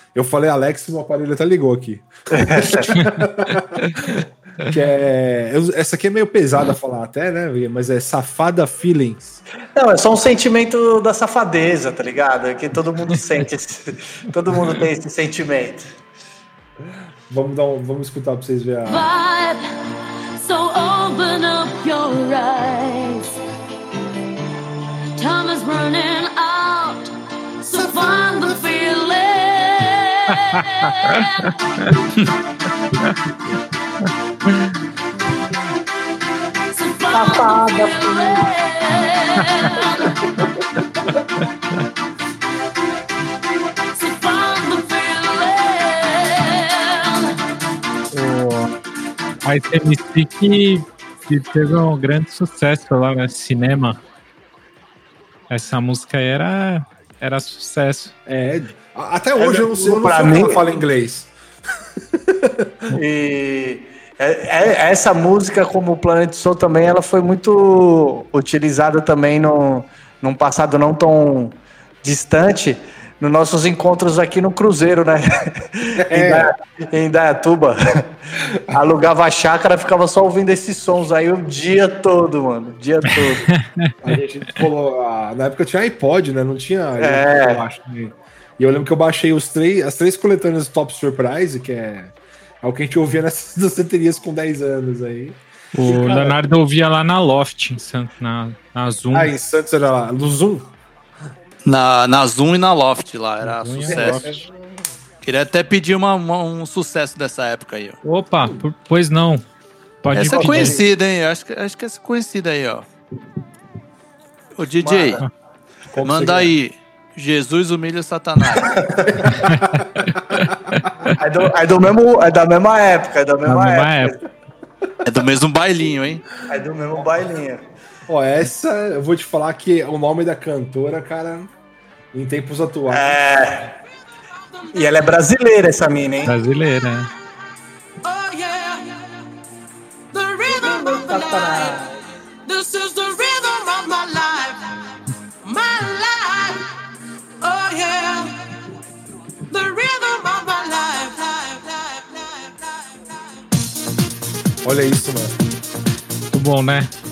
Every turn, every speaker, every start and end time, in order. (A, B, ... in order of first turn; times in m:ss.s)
0:00.1-0:09.4 A
0:02.4-0:02.9 B
0:02.9-0:03.2 C
0:09.7-0:15.9 B
0:16.8-0:19.1 A
0:18.9-0:19.6 D
0:20.4-0:23.4 D
0:25.2-0:31.9 D
0:36.7-0:40.4 D
0:37.1-0:38.4 B
0:43.9-0:47.4 D
0:48.1-0:48.7 C
0:49.4-0:54.0 C
0:55.5-0:58.1 C
0:58.2-1:01.3 A
0:59.4-1:00.6 B
1:02.1-1:02.8 A
1:02.9-1:18.1 B
1:15.9-1:16.5 A
1:18.7-1:23.5 B
1:23.5-1:24.0 C
1:24.0-1:36.4 A
1:27.0-1:27.6 B
1:35.7-1:39.3 C
1:39.1-1:40.7 A
1:41.6-1:44.2 E
1:43.4-1:44.4 C
1:43.8-1:44.5 A
1:45.2-1:48.0 E
1:48.0-1:49.4 C
1:50.0-1:50.8 C
1:50.1-1:52.8 E
1:50.2-1:50.8 B
1:54.6-1:55.2 E
1:54.8-1:55.2 B
1:55.9-1:56.5 A
1:56.0-1:58.8 E
1:58.6-2:00.5 A
1:59.3-2:01.1 C
2:01.2-2:04.2 B
2:03.5-2:04.1 C
2:05.0-2:06.2 E
2:06.5-2:07.6 B
2:08.1-2:11.5 A
2:12.1-2:13.2 A
2:12.9-2:13.7 B
2:14.7-2:16.3 B
2:16.2-2:17.1 C
2:18.0-2:19.0 D
2:20.1-2:21.9 D
2:20.5-2:21.9 B
2:22.4-2:24.7 D
2:25.4-2:26.6 D
2:27.4-2:28.5 D
2:29.5-2:33.2 D
2:34.6-2:35.3 A
2:36.3-2:36.9 C